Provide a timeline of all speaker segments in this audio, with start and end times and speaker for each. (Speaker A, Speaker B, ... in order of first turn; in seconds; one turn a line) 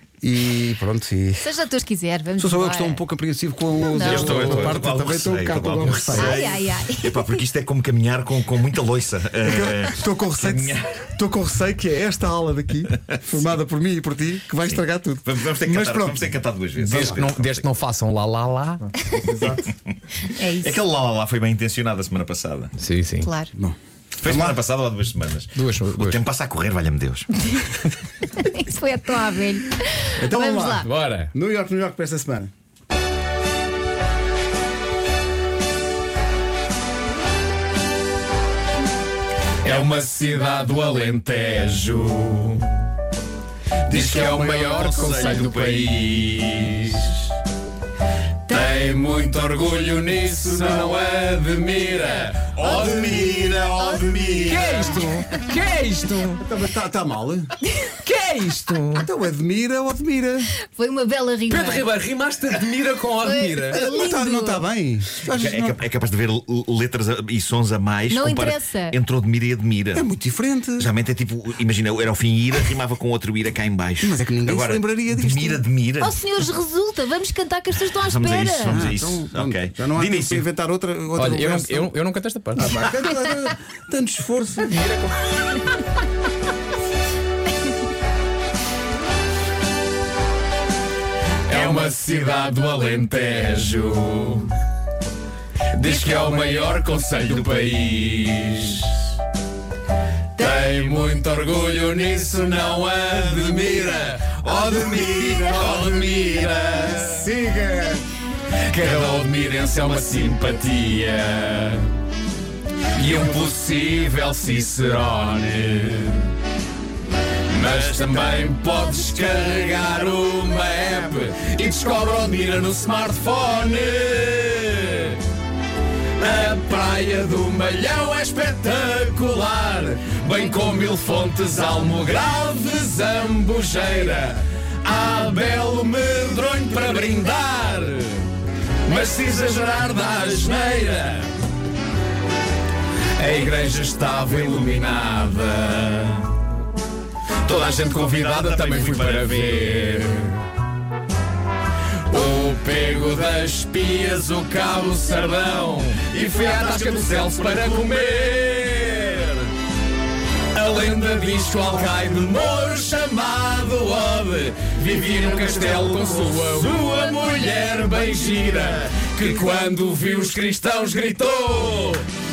Speaker A: 0.2-1.5
Speaker B: 1.4-3.0
Speaker A: 2.4-6.4
Speaker B: 3.8-4.6
Speaker C: 4.0-10.9
Speaker B: 6.1-7.4
Speaker A: 9.4-16.3
Speaker C: 15.2-17.7
Speaker D: 16.8-18.9
Speaker A: 19.1-19.6
Speaker C: 19.9-22.7
Speaker B: 20.4-20.8
Speaker D: 22.8-23.3
Speaker B: 23.2-23.5
Speaker A: 23.5-24.6
Speaker C: 24.2-27.4
Speaker D: 25.6-26.1
Speaker B: 28.3-30.9
Speaker A: 30.2-32.5
Speaker D: 30.8-31.3
Speaker D: 39.6-42.7
Speaker D: 43.9-47.2
Speaker C: 43.9-45.6
Speaker B: 44.8-45.5
Speaker D: 48.5-53.3
Speaker C: 52.7-55.1
Speaker B: 53.0-55.5
Speaker D: 54.4-56.4
Speaker A: 56.3-57.5
Speaker D: 58.0-59.1
Speaker A: 58.9-60.5
Speaker B: 60.7-61.9
Speaker D: 61.5-63.8
Speaker B: 63.2-64.6
Speaker A: 63.7-65.8
Speaker C: 65.2-70.0
Speaker B: 68.1-69.0
Speaker A: 69.9-70.9
Speaker C: 70.8-76.2
Speaker A: 74.0-75.6
Speaker B: 76.0-78.8
Speaker C: 78.0-80.4
Speaker A: 78.6-81.9
Speaker D: 81.2-82.8
Speaker A: 82.5-84.9
Speaker D: 91.5-94.5
Speaker D: 95.7-99.0
Speaker D: 100.4-107.3
Speaker A: 107.1-108.0
Speaker D: 108.7-111.9
Speaker D: 112.9-116.3
Speaker D: 117.5-125.2
Speaker D: 126.2-138.3
Speaker D: 138.8-141.3
Speaker D: 143.2-146.3
Speaker D: 147.4-150.4
Speaker D: 152.1-159.5
Speaker D: 160.5-172.1